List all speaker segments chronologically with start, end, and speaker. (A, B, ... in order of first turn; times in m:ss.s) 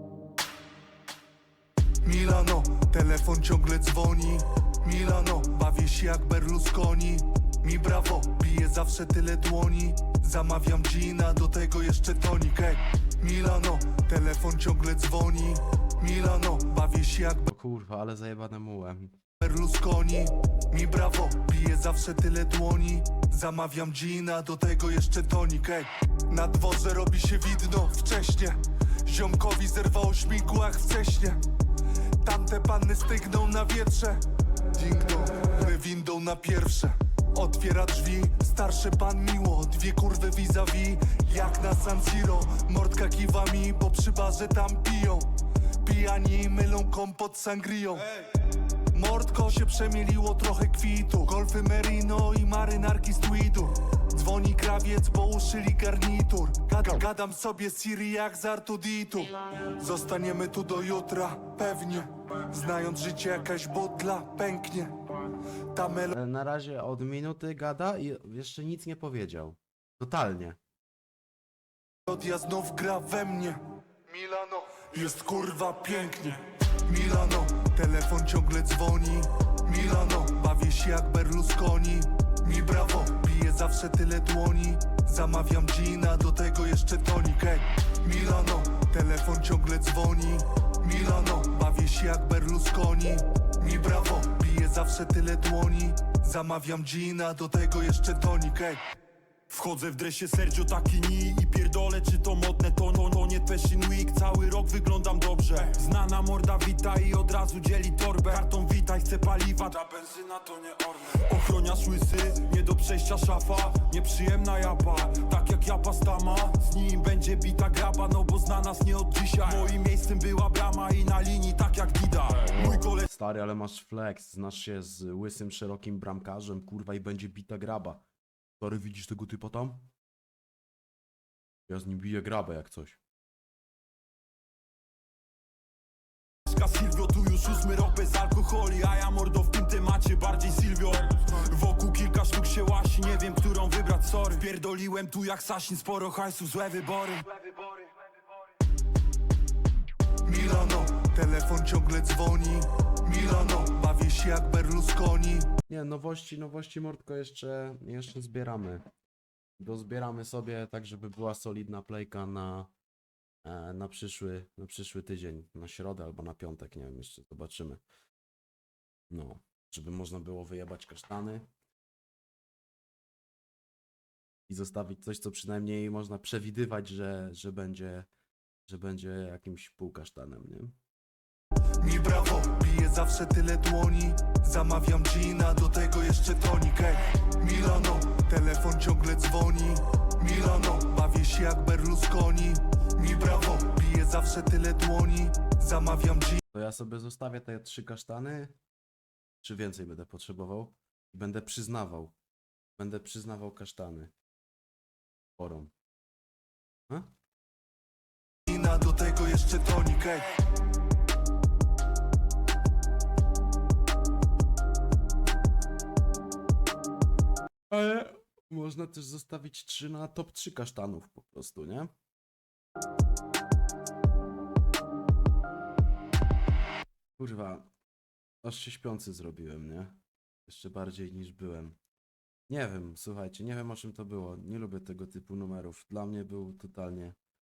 0:02.0-0:17.5 A
0:17.5-0:19.2 B
0:19.4-1:06.1 A
1:06.1-1:10.6 B
1:12.1-1:38.8 A
1:39.5-2:03.1 C
2:02.5-2:08.0 B
2:08.6-2:09.9 B
2:11.7-2:13.0 B
2:16.5-2:28.0 C
2:30.2-2:35.6 A
2:35.7-2:38.8 B
2:39.6-2:42.7 B
2:43.4-2:47.8 B
2:49.1-2:51.5 B
2:54.5-2:58.1 B
2:58.7-3:00.8 B
3:01.8-3:16.4 A
3:16.5-3:18.6 B
3:19.4-3:22.2 B
3:22.8-3:24.1 B
3:25.4-3:25.7 B
3:28.5-3:30.4 A
3:37.7-3:41.9 B
3:47.2-3:47.7 B
3:48.4-3:51.8 B
3:52.5-3:57.2 B